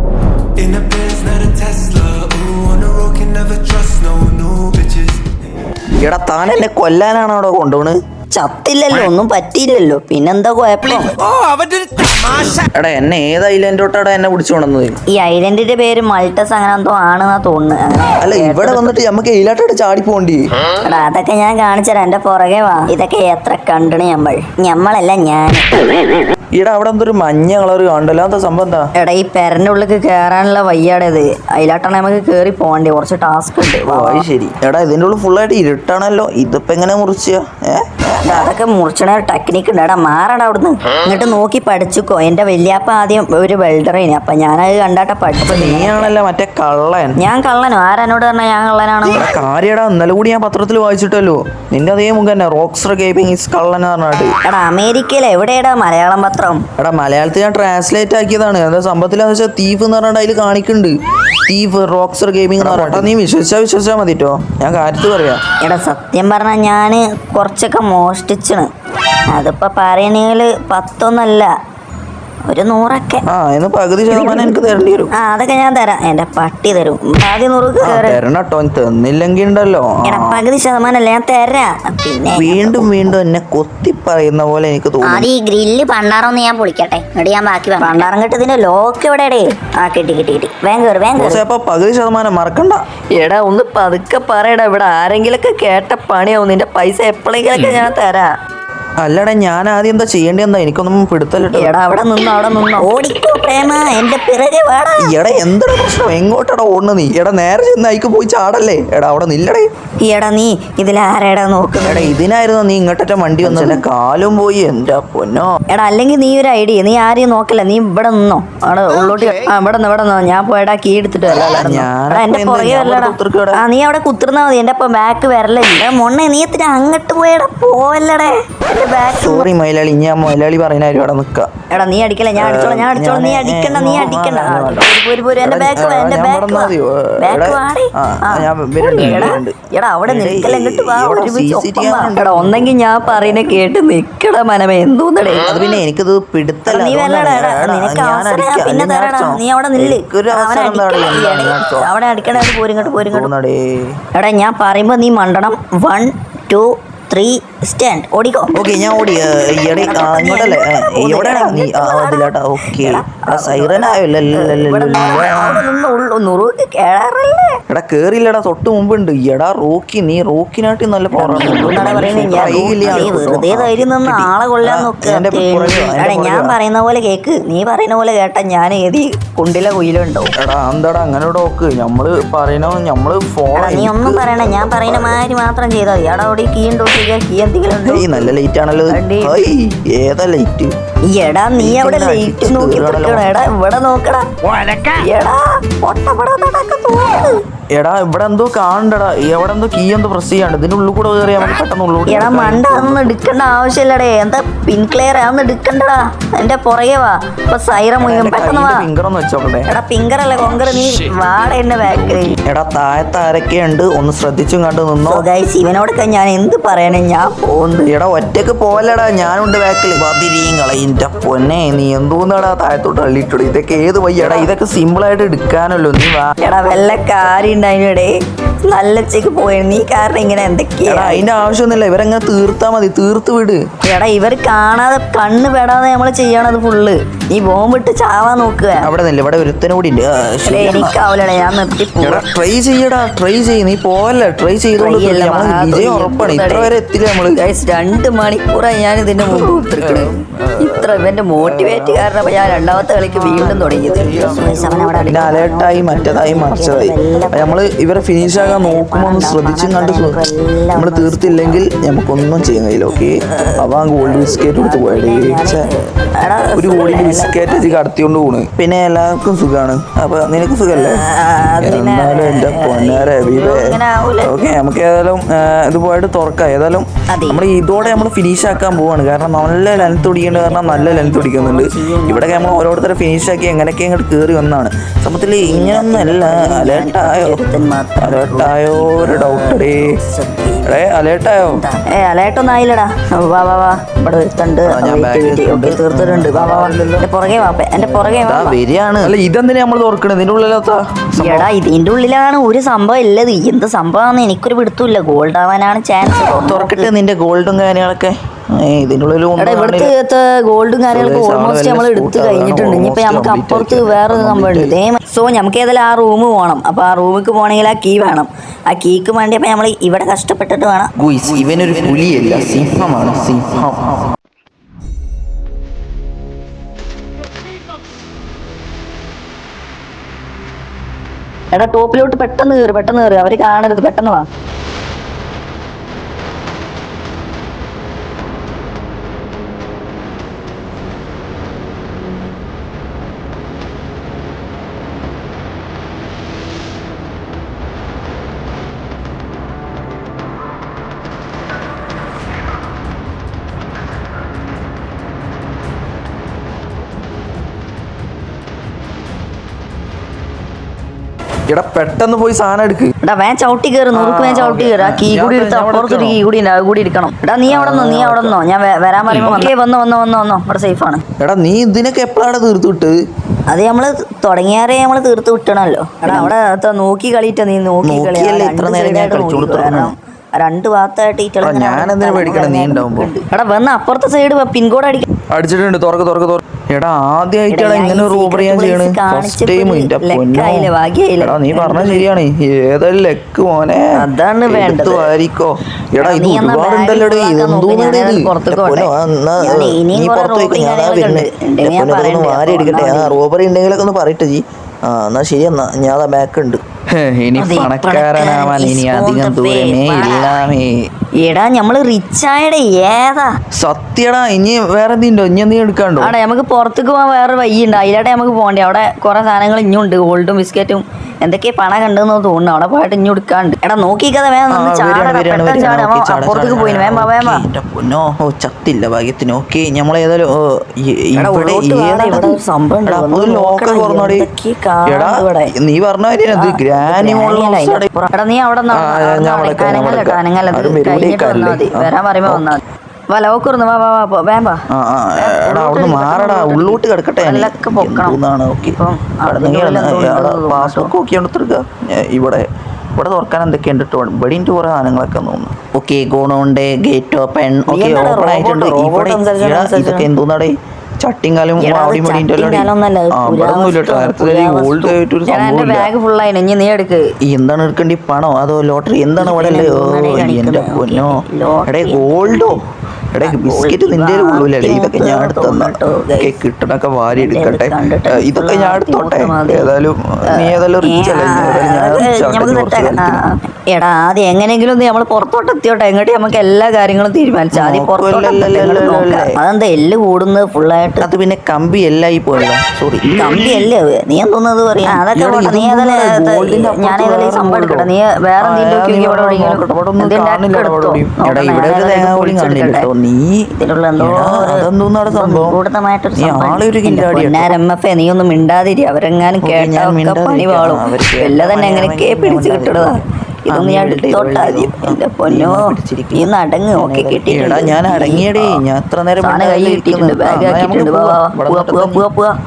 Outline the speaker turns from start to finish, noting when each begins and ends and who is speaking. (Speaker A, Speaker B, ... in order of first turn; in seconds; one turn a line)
Speaker A: 0.6-5.2
Speaker B: 6.0-8.0
Speaker C: 8.3-11.2
Speaker A: 11.4-12.3
Speaker B: 12.6-15.0
Speaker C: 15.1-19.0
Speaker B: 18.2-20.4
Speaker C: 20.8-25.7
Speaker B: 26.6-28.9
Speaker C: 29.0-34.2
Speaker B: 33.9-38.5
Speaker C: 38.2-46.1
Speaker B: 45.4-47.2
Speaker C: 47.2-49.4
Speaker B: 49.1-54.3
Speaker C: 54.4-56.6
Speaker B: 56.8-65.4
Speaker C: 62.6-63.1
Speaker C: 65.6-68.7
Speaker C: 69.3-71.5
Speaker C: 72.5-73.2
Speaker B: 73.3-75.1
Speaker C: 74.1-74.6
Speaker C: 75.1-78.2
Speaker B: 77.8-80.4
Speaker C: 80.0-82.9
Speaker B: 82.3-85.3
Speaker D: 85.0-88.1
Speaker C: 87.8-91.4
Speaker B: 91.2-92.8
Speaker C: 93.2-98.3
Speaker B: 97.6-97.8
Speaker B: 99.0-101.8
Speaker C: 101.5-105.2
Speaker D: 102.8-103.8
Speaker B: 105.0-109.7
Speaker C: 110.0-112.2
Speaker B: 111.8-115.5
Speaker C: 113.4-113.8
Speaker C: 115.7-129.5
Speaker B: 121.3-123.6
Speaker B: 129.1-131.5
Speaker C: 131.7-145.5
Speaker B: 132.4-139.6
Speaker B: 140.1-143.5
Speaker B: 145.4-154.0
Speaker C: 146.7-153.3
Speaker C: 154.1-167.6
Speaker B: 158.5-165.6
Speaker B: 167.7-176.6
Speaker C: 171.1-180.3
Speaker D: 172.9-173.3
Speaker B: 180.4-185.2
Speaker C: 183.6-188.3
Speaker B: 187.8-190.7
Speaker C: 188.9-189.4
Speaker C: 191.1-194.3
Speaker B: 191.6-193.3
Speaker C: 194.8-197.4
Speaker B: 197.7-203.2
Speaker C: 202.1-208.9
Speaker B: 208.0-209.7
Speaker C: 209.7-212.4
Speaker B: 212.4-215.2
Speaker C: 215.1-217.9
Speaker B: 217.9-226.3
Speaker C: 224.2-224.5
Speaker C: 226.4-228.1
Speaker C: 228.7-231.3
Speaker B: 230.9-233.6
Speaker C: 233.8-238.9
Speaker B: 238.8-241.0
Speaker C: 240.5-242.2
Speaker B: 242.0-247.4
Speaker C: 244.8-246.7
Speaker C: 247.3-250.1
Speaker B: 249.2-260.2
Speaker C: 250.6-257.6
Speaker D: 254.3-255.6
Speaker C: 258.2-261.6
Speaker B: 260.7-265.7
Speaker C: 262.9-267.8
Speaker B: 266.6-271.0
Speaker C: 270.7-274.4
Speaker B: 271.6-287.4
Speaker C: 277.1-278.1
Speaker C: 279.7-282.6
Speaker C: 285.4-290.8
Speaker B: 288.0-289.9
Speaker B: 290.6-291.6
Speaker C: 291.4-298.6
Speaker B: 294.7-297.1
Speaker B: 297.8-301.5
Speaker C: 301.2-306.9
Speaker B: 306.4-309.9
Speaker C: 309.4-320.9
Speaker B: 310.9-314.8
Speaker B: 321.0-324.0
Speaker C: 331.5-334.3
Speaker B: 361.5-362.9
Speaker C: 363.0-371.0
Speaker B: 363.9-366.2
Speaker B: 367.5-368.4
Speaker B: 369.1-369.5
Speaker B: 371.2-373.0
Speaker C: 373.5-385.1
Speaker B: 376.1-376.3
Speaker B: 377.8-379.9
Speaker B: 381.4-383.1
Speaker B: 385.3-393.9
Speaker C: 387.5-392.1
Speaker C: 394.0-395.1
Speaker B: 394.5-410.9
Speaker C: 396.0-403.2
Speaker C: 407.4-410.3
Speaker C: 411.2-413.3
Speaker B: 413.6-416.1
Speaker C: 416.0-427.4
Speaker B: 424.5-434.3
Speaker C: 431.2-435.5
Speaker B: 434.9-437.9
Speaker C: 436.3-444.6
Speaker B: 438.7-442.6
Speaker B: 444.7-465.9
Speaker C: 445.2-450.9
Speaker C: 457.7-460.1
Speaker C: 461.6-467.1
Speaker B: 467.3-472.6
Speaker C: 469.2-472.5
Speaker B: 473.1-483.2
Speaker C: 473.2-476.3
Speaker C: 477.2-479.7
Speaker C: 480.4-491.1
Speaker B: 487.5-489.3
Speaker B: 491.0-493.7
Speaker C: 493.1-502.9
Speaker B: 494.9-497.9
Speaker B: 498.4-505.6
Speaker C: 503.5-518.6
Speaker B: 506.2-507.5
Speaker B: 509.4-513.0
Speaker B: 513.5-522.0
Speaker C: 519.2-522.4